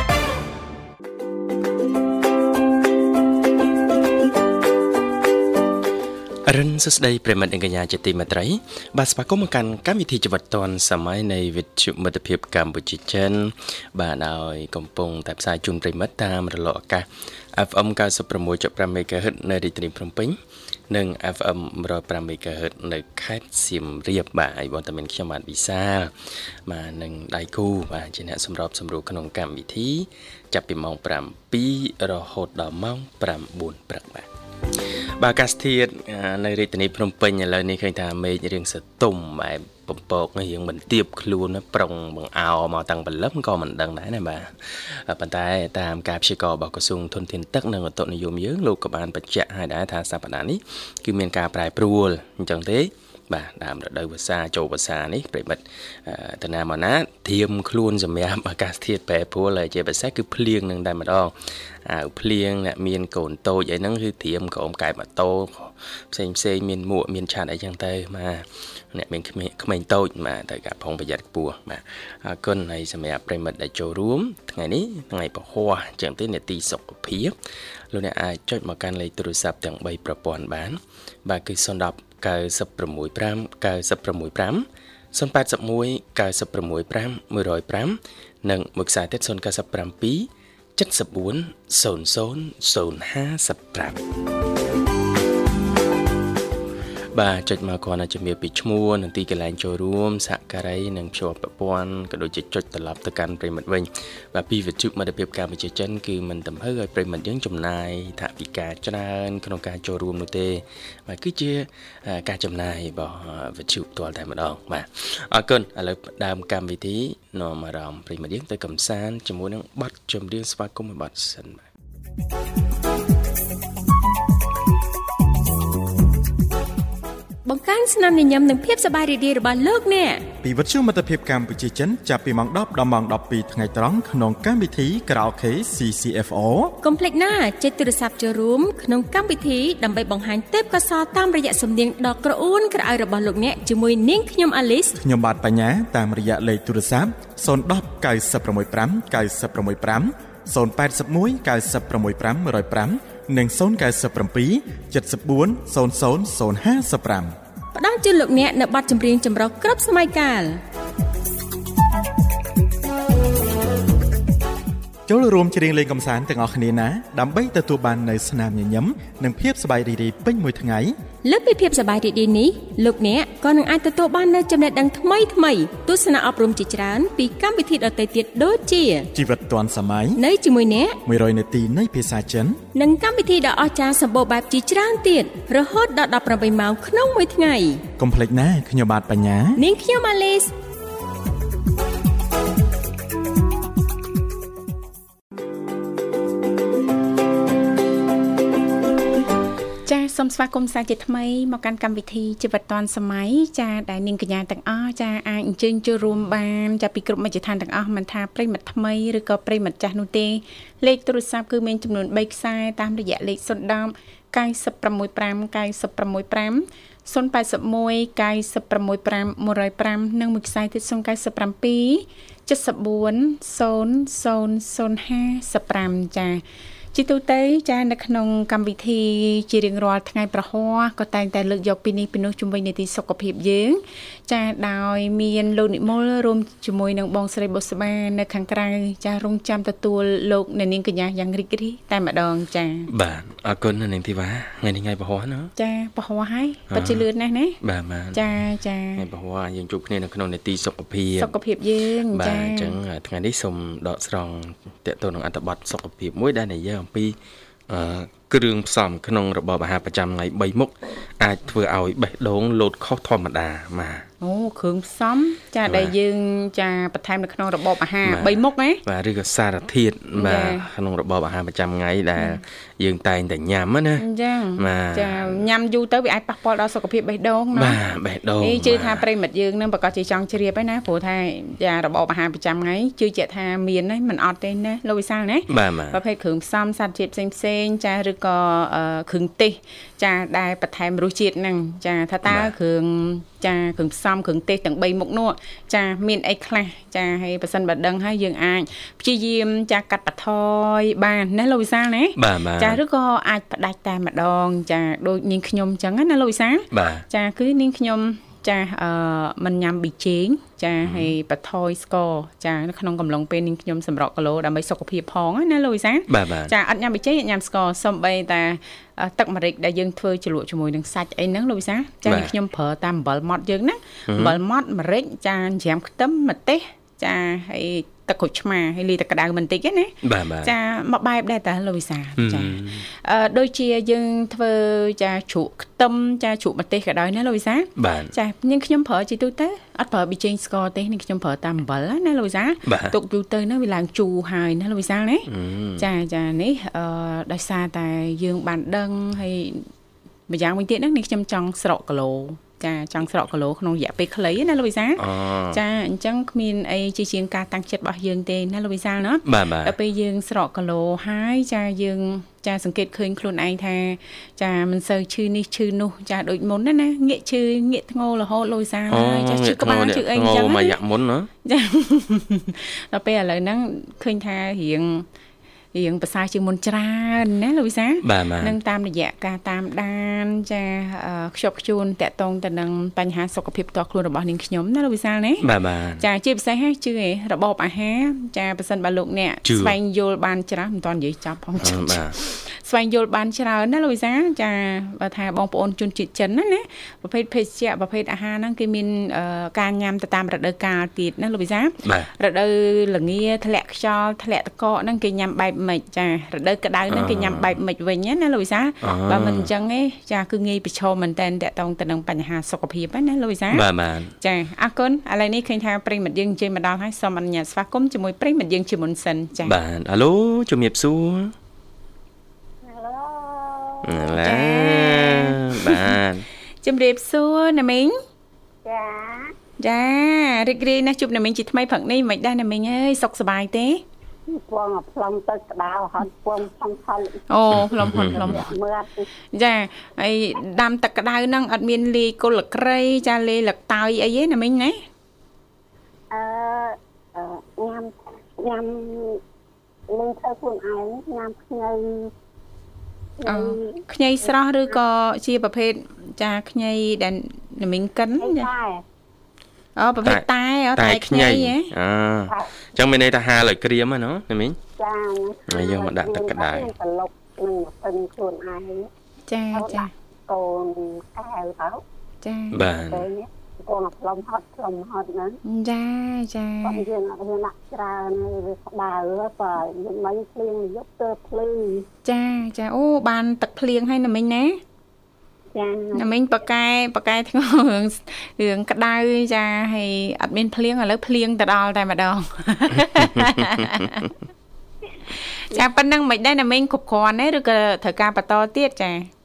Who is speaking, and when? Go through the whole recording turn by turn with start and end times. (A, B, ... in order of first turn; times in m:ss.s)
0:06.4-0:20.4 A
0:20.9-0:26.1 A
0:26.6-0:34.2 A
0:35.2-1:01.3 A
1:01.8-1:17.3 A
1:17.9-1:34.0 A
1:37.1-2:01.6 A
2:07.4-2:10.2 B
2:10.4-2:16.8 C
2:16.8-2:24.9 B
2:25.0-2:37.3 C
2:37.7-2:40.6 B
2:45.1-2:50.9 C
2:51.2-2:59.1 B
2:59.1-3:00.2 C
3:00.2-3:01.0 B
3:01.0-3:02.6 C
3:02.7-3:07.8 B
3:08.0-3:09.6 C
3:09.6-3:10.5 B
3:19.8-4:02.9 D
4:02.9-4:05.5 A
4:05.6-4:07.6 D
4:06.7-4:07.0 A
4:07.6-4:08.2 A
4:08.1-4:09.0 D
4:09.0-4:11.3 A
4:11.2-4:12.8 D
4:12.1-4:17.2 A
4:17.7-4:24.0 A
4:24.2-4:28.8 D
4:25.7-4:25.9 A
4:28.0-4:34.0 A
4:30.1-4:30.6 D
4:34.0-4:37.8 D
4:34.6-4:35.4 A
4:37.5-4:39.0 A
4:38.4-5:45.3 D
4:45.5-4:46.0 A
4:52.2-4:52.5 A
5:02.2-5:02.8 A
5:06.7-5:07.0 A
5:10.8-5:11.1 A
5:16.1-5:16.5 A
5:22.0-5:22.3 A
5:24.1-5:24.4 A
5:30.0-5:30.5 A
5:32.2-5:32.8 A
5:37.8-5:38.1 A
5:42.6-5:42.9 A
5:45.3-5:45.8 A
5:45.8-5:49.7 D
5:50.3-6:10.8 D
5:55.0-5:55.6 A
5:59.2-5:59.7 A
6:08.9-6:11.3 A
6:11.4-6:15.0 D
6:15.7-6:25.4 D
6:18.0-6:18.6 A
6:25.4-6:26.0 A
6:26.0-6:53.6 D
6:29.4-6:29.8 A
6:31.6-6:32.2 A
6:41.8-6:42.1 A
6:46.9-6:47.6 A
6:48.8-6:49.5 A
6:53.5-6:54.1 A
6:54.2-6:59.5 D
6:59.4-7:01.3 A
7:02.6-7:04.1 E
7:03.8-7:06.2 A
7:04.2-7:05.8 D
7:06.6-7:08.0 D
7:08.6-7:09.3 E
7:09.6-7:13.8 D
7:14.3-7:19.1 E
7:17.3-7:18.5 D
7:17.8-7:18.4 A
7:19.3-7:24.8 D
7:26.1-7:29.2 E
7:29.9-7:32.1 E
7:33.2-7:33.8 E
7:33.2-7:38.5 D
7:38.2-7:38.8 E
7:39.8-7:41.7 D
7:40.8-7:44.6 A
7:44.8-7:48.9 E
7:45.5-7:46.7 A
7:49.3-7:49.9 D
7:49.5-7:51.8 E
7:52.2-7:52.6 D
7:52.5-7:53.1 A
7:52.7-7:55.4 E
7:55.4-7:56.8 D
7:56.6-8:01.9 E
8:02.0-8:04.6 D
8:05.5-8:06.1 E
8:05.9-8:14.1 D
8:15.4-8:19.1 D